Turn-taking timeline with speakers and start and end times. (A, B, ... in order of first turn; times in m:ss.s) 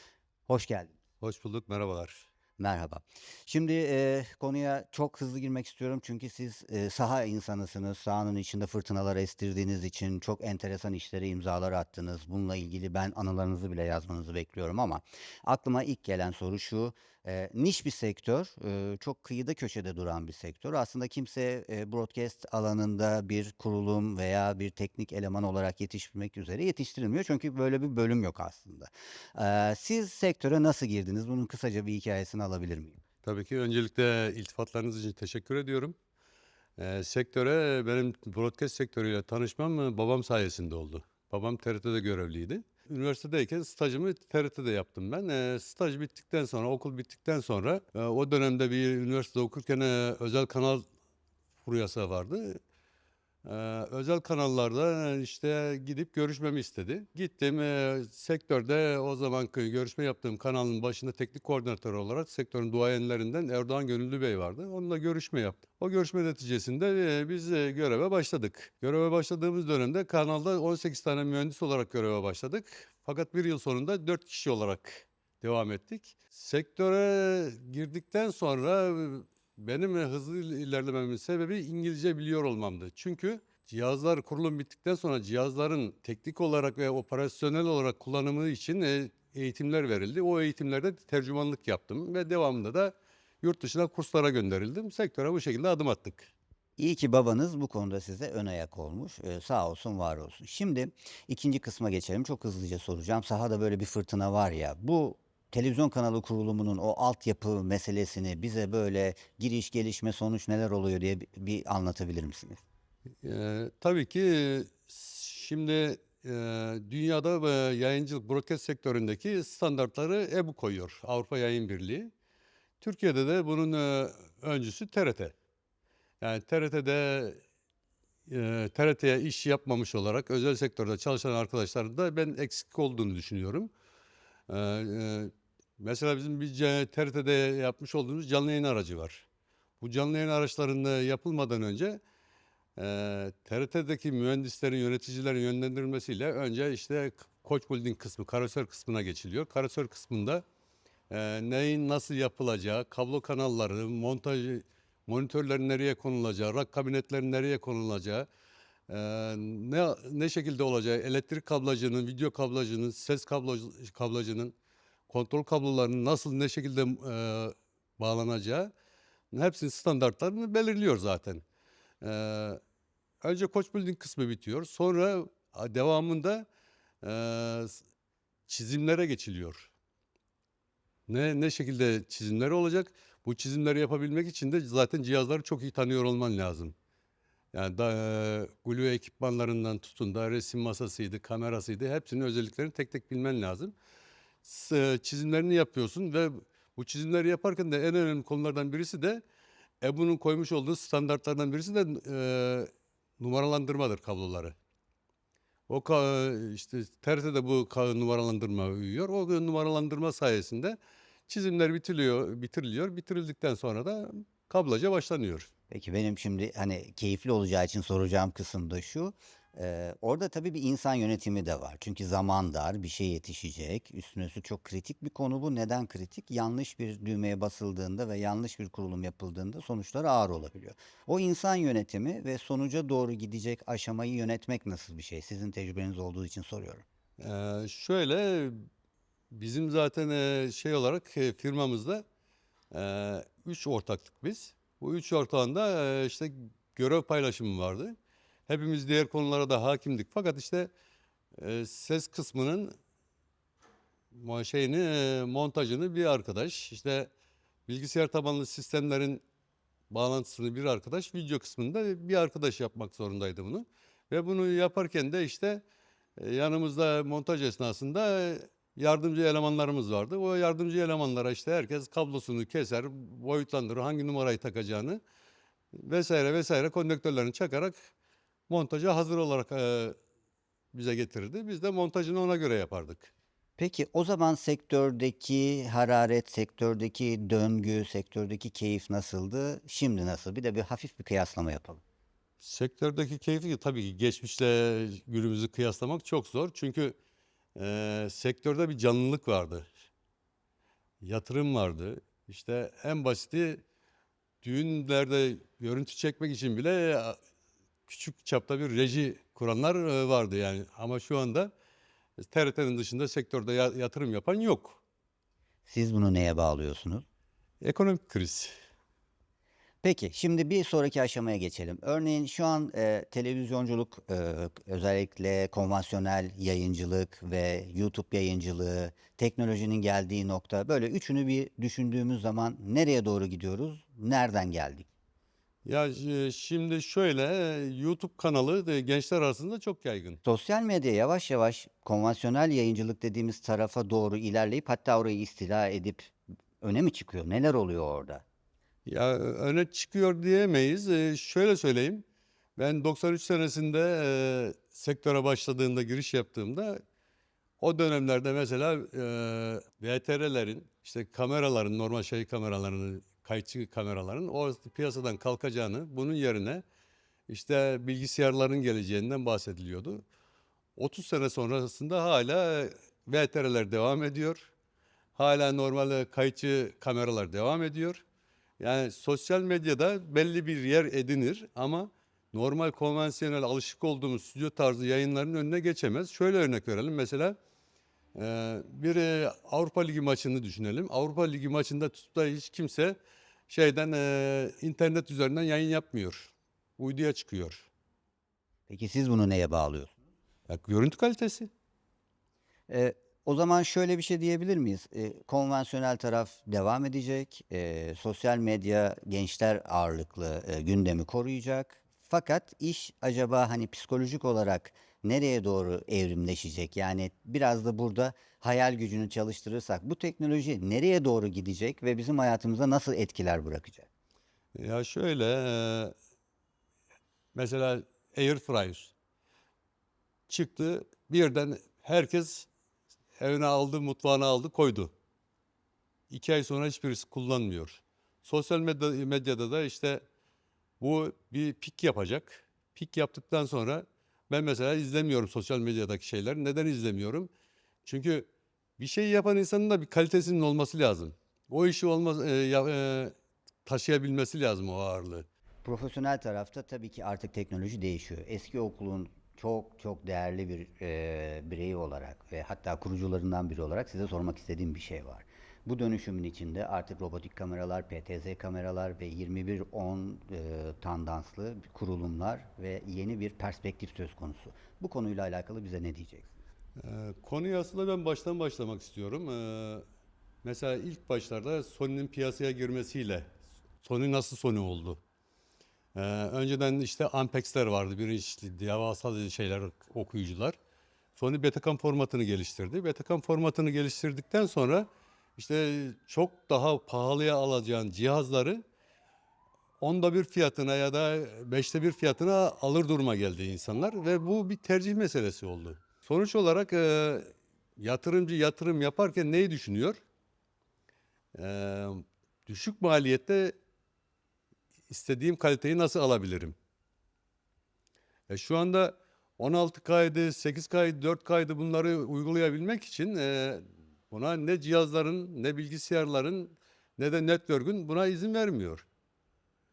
0:00.5-0:00.9 A
0:01.2-0:02.3 B
0:02.6-0:33.0 A
0:33.2-0:36.0 B
0:36.8-0:50.8 B
0:51.6-0:52.6 B
0:53.4-1:36.3 B
1:36.8-1:52.6 A
1:53.2-2:02.1 B
2:02.8-2:05.3 B
2:06.2-2:07.4 B
2:08.3-2:13.7 B
2:14.5-2:19.2 B
2:19.8-2:22.0 B
2:22.8-2:30.4 B
2:31.1-2:38.3 B
2:38.9-2:44.6 B
2:45.1-2:48.7 B
2:49.3-2:51.4 B
2:52.0-2:52.6 B
2:53.2-2:56.5 B
2:57.0-2:57.8 B
2:58.5-2:59.7 B
3:01.1-3:06.7 B
3:07.5-3:13.8 B
3:14.4-3:19.2 B
3:19.8-3:24.6 B
3:25.7-3:30.8 B
3:31.3-3:35.5 B
3:35.7-3:56.8 A
3:57.2-3:58.6 B
3:59.3-4:02.0 B
4:02.7-4:07.9 B
4:08.5-4:10.7 B
4:11.4-4:12.7 B
4:14.1-4:17.1 B
4:17.7-4:19.2 B
4:19.9-4:25.6 B
4:26.2-4:35.0 B
4:35.7-4:37.9 B
4:38.5-4:40.0 B
4:40.7-4:43.1 B
4:43.6-4:51.8 A
4:52.4-4:57.0 B
4:57.6-4:59.7 B
5:01.0-5:03.6 B
5:04.4-5:07.2 B
5:07.9-5:11.5 B
5:12.2-5:14.8 B
5:15.7-5:17.0 A
5:17.6-5:18.5 B
5:19.8-5:34.9 A
5:35.6-5:40.2 B
5:40.2-5:48.2 A
5:48.9-5:52.0 B
5:52.6-5:56.8 B
5:57.6-6:06.6 B
6:07.3-6:10.0 B
6:10.8-6:14.5 B
6:15.2-6:18.0 B
6:18.6-6:27.4 B
6:28.1-6:33.0 B
6:33.5-6:37.7 B
6:38.7-6:39.9 A
6:40.5-6:41.5 B
6:42.7-7:03.9 A
7:04.6-7:05.9 B
7:07.3-7:08.9 B
7:10.3-7:12.5 B
7:13.2-7:14.9 B
7:16.1-7:20.0 B
7:20.8-7:27.3 B
7:27.8-7:33.1 B
7:33.6-7:35.3 B
7:35.6-7:56.3 A
7:56.8-7:59.8 B
8:00.4-8:05.0 B
8:05.9-8:10.6 B
8:11.2-8:18.6 B
8:19.8-8:30.0 B
8:31.4-8:33.5 B
8:34.9-8:36.6 B
8:38.3-8:48.9 B